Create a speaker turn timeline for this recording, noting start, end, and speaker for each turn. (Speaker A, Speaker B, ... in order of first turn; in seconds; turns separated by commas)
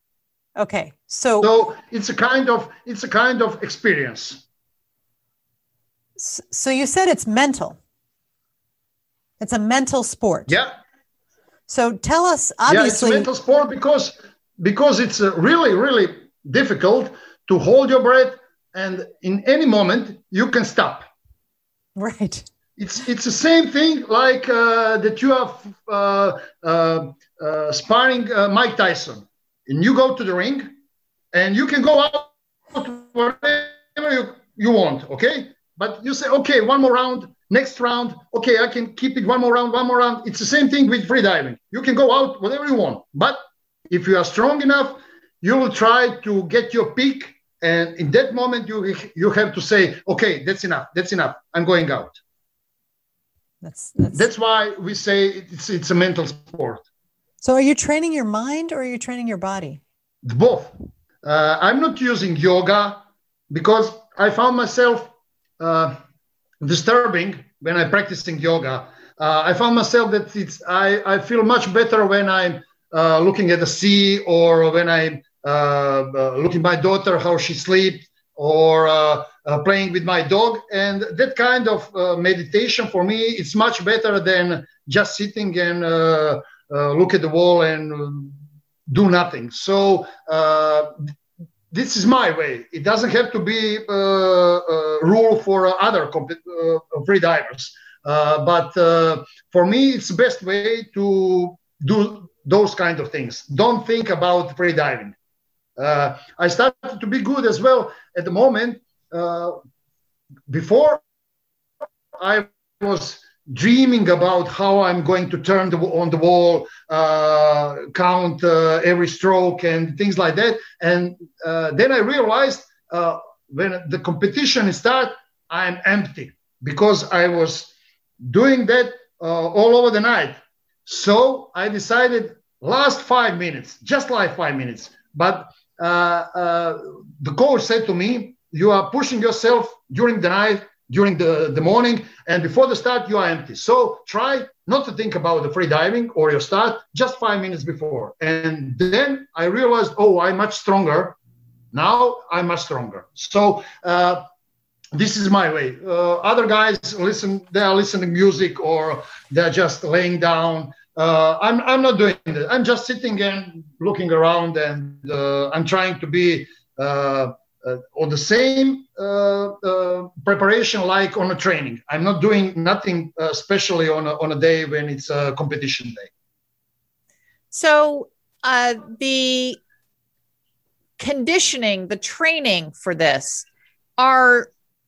Speaker A: 0.6-1.5, Speaker B: 1.4-4.4, Speaker A: 6.2-7.8, Speaker A: 9.4-10.6, Speaker B: 10.5-10.7, Speaker A: 11.7-13.3, Speaker B: 12.7-21.0, Speaker A: 21.9-22.5, Speaker B: 22.8-30.7, Speaker B: 31.3-43.4, Speaker B: 43.9-52.2, Speaker A: 53.6-54.2, Speaker B: 54.1-56.8, Speaker A: 57.4-59.8, Speaker B: 60.2-66.0, Speaker B: 66.6-88.3, Speaker B: 88.9-90.9, Speaker B: 91.7-105.1, Speaker B: 105.8-109.6, Speaker B: 110.5-111.0, Speaker B: 112.2-151.2, Speaker B: 151.7-154.2, Speaker B: 154.9-176.1, Speaker C: 177.5-179.6, Speaker C: 181.0-183.4, Speaker C: 184.0-184.5